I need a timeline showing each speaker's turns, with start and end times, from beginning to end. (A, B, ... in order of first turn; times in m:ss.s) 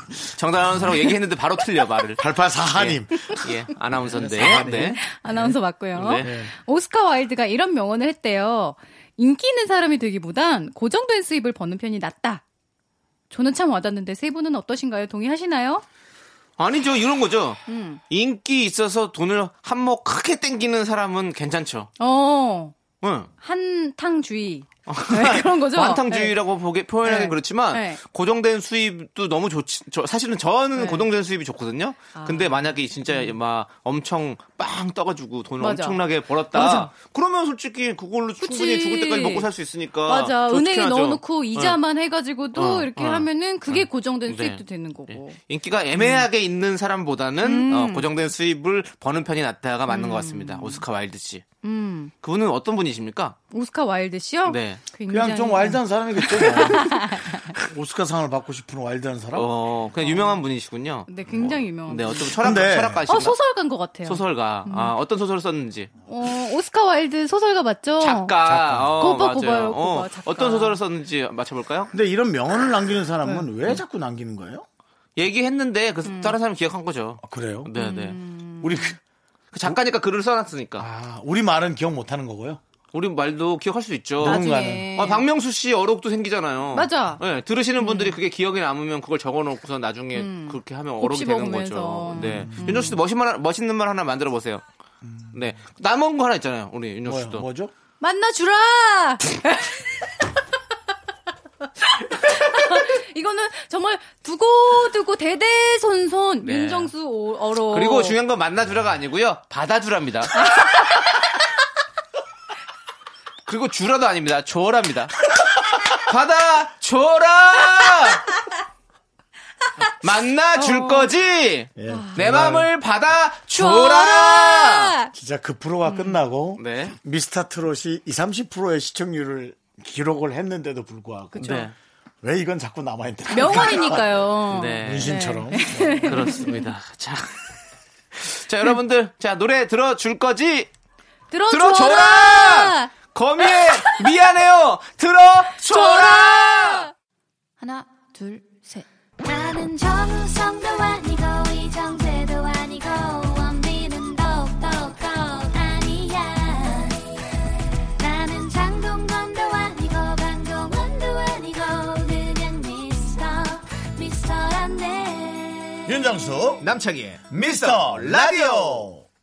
0:00.3-0:05.0 A
0:02.2-0:03.4 B
0:04.0-0:05.6 B
0:04.4-0:12.4 C
0:06.0-0:06.3 A
0:06.2-0:06.5 B
0:13.3-0:15.8 C
0:16.6-0:21.9 A
0:17.7-0:18.0 C
0:22.0-0:22.7 C
0:23.0-0:23.3 A
0:23.4-0:26.4 C
0:24.9-0:41.8 A
0:27.0-0:28.0 C
0:30.8-0:31.1 C
0:32.1-0:33.4 C
0:35.6-0:36.9 C
0:38.4-0:39.5 C
0:40.1-0:45.4 C
0:42.5-0:51.4 A
0:46.0-0:46.3 C
0:47.4-0:48.1 C
0:49.9-0:50.8 C
0:51.6-0:52.1 C
0:52.2-0:53.4 A
0:53.5-0:57.5 C
0:54.5-0:54.8 A
0:55.1-0:59.5 B
0:59.4-1:03.4 A
1:00.0-1:00.4 C
1:01.1-1:02.4 C
1:02.4-1:03.0 B
1:03.1-1:04.9 C
1:04.0-1:05.9 A
1:06.1-1:08.4 C
1:08.0-1:11.9 A
1:08.4-1:08.9 B
1:09.0-1:10.8 C
1:11.9-1:14.6 B
1:15.2-1:18.2 A
1:16.0-1:16.4 C
1:17.2-1:17.7 B
1:17.8-1:19.0 C
1:18.6-1:19.0 B
1:19.5-1:20.9 A
1:20.8-1:22.6 B
1:22.9-1:34.6 A
1:24.2-1:24.9 B
1:24.2-1:25.3 C
1:26.7-1:27.2 C
1:27.8-1:28.2 C
1:30.1-1:33.0 C
1:32.2-1:32.9 B
1:35.0-1:35.4 B
1:35.3-1:37.5 A
1:37.1-1:37.7 B
1:38.0-1:40.1 C
1:41.9-1:48.2 C
1:46.4-1:46.9 A
1:47.7-1:50.5 A
1:50.4-1:50.8 C
1:53.5-1:55.1 A
1:55.9-1:58.3 A
2:00.0-2:04.9 A
2:00.6-2:01.1 C
2:01.8-2:02.7 B
2:03.5-2:05.1 C
2:05.1-2:11.5 B
2:05.9-2:06.2 C
2:06.6-2:07.0 A
2:11.3-2:11.7 C
2:11.4-2:11.7 A
2:12.2-2:16.3 B
2:13.3-2:16.7 C
2:14.5-2:15.2 A
2:16.0-2:17.6 A
2:18.1-2:20.7 A
2:21.3-2:22.9 C
2:21.5-2:26.9 A
2:23.4-2:24.1 C
2:25.7-2:26.8 C
2:27.6-2:28.8 C
2:28.0-2:28.6 D
2:29.2-2:37.0 D
2:38.0-2:46.1 D
2:45.9-2:46.6 B
2:46.6-2:48.9 A
2:47.3-2:49.1 B